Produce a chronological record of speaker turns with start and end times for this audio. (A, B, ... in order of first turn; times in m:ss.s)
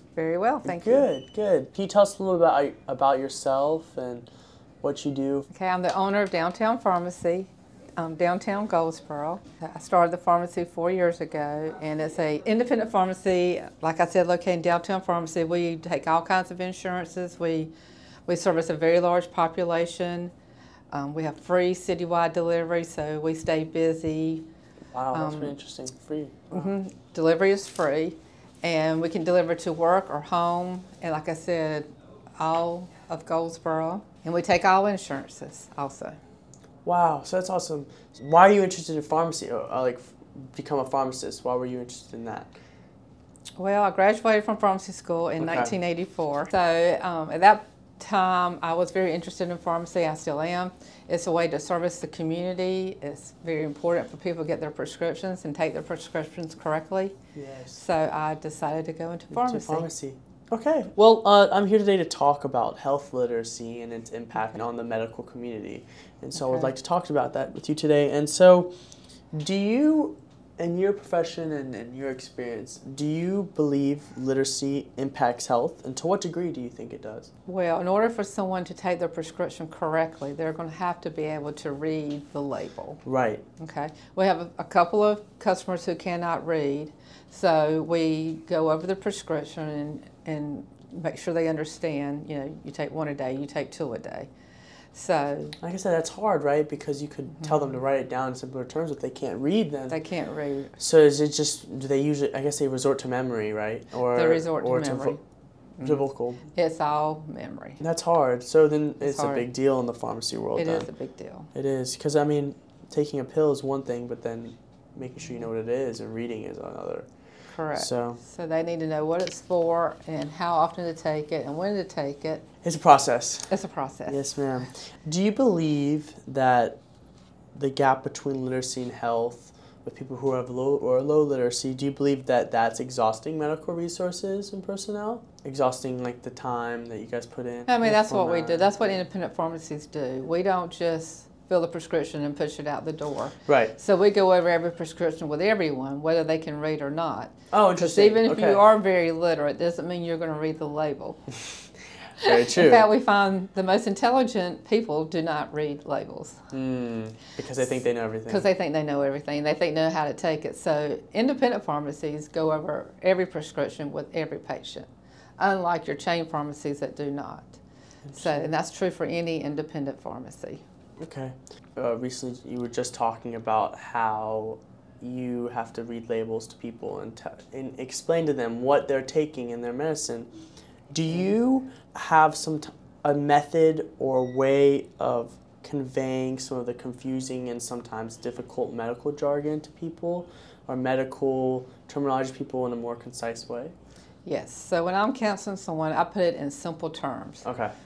0:00.2-0:01.1 A
0:00.6-0:04.3 B
0:04.8-0:05.5 B
0:05.5-0:17.7 A
0:18.3-0:20.3 A
0:20.9-0:24.4 A
0:24.9-0:26.7 B
0:25.1-0:25.6 A
0:26.5-0:31.9 A
0:32.4-0:36.2 A
0:36.8-0:42.5 B
0:43.6-0:57.1 A
0:45.4-0:45.7 B
0:57.3-0:57.8 B
0:57.7-0:59.9 A
0:59.3-1:08.7 B
1:06.4-1:06.7 A
1:09.3-1:17.3 B
1:17.4-1:23.0 A
1:23.0-1:23.4 B
1:23.6-1:34.3 A
1:34.9-1:35.6 A
1:35.6-1:40.0 B
1:39.9-1:40.8 A
1:40.8-1:45.2 B
1:44.1-1:45.2 A
1:45.8-1:46.4 B
1:46.5-1:47.8 A
1:47.8-1:50.9 B
1:49.0-1:49.5 A
1:50.5-1:51.5 A
1:51.5-1:57.1 B
1:57.5-2:02.4 A
1:57.7-1:58.2 B
2:02.6-2:03.5 B
2:03.5-2:04.3 A
2:04.1-2:06.8 B
2:07.5-2:18.8 B
2:17.7-2:31.3 A
2:23.5-2:23.7 B
2:27.5-2:28.6 B
2:32.2-2:32.9 B
2:32.2-2:36.4 A
2:36.5-2:38.5 B
2:38.3-2:44.9 A
2:45.4-2:47.6 A
2:48.0-2:48.5 B
2:48.1-2:50.6 A
2:51.0-3:00.3 B
3:00.9-3:13.7 B
3:14.2-3:17.4 A
3:17.4-3:17.7 B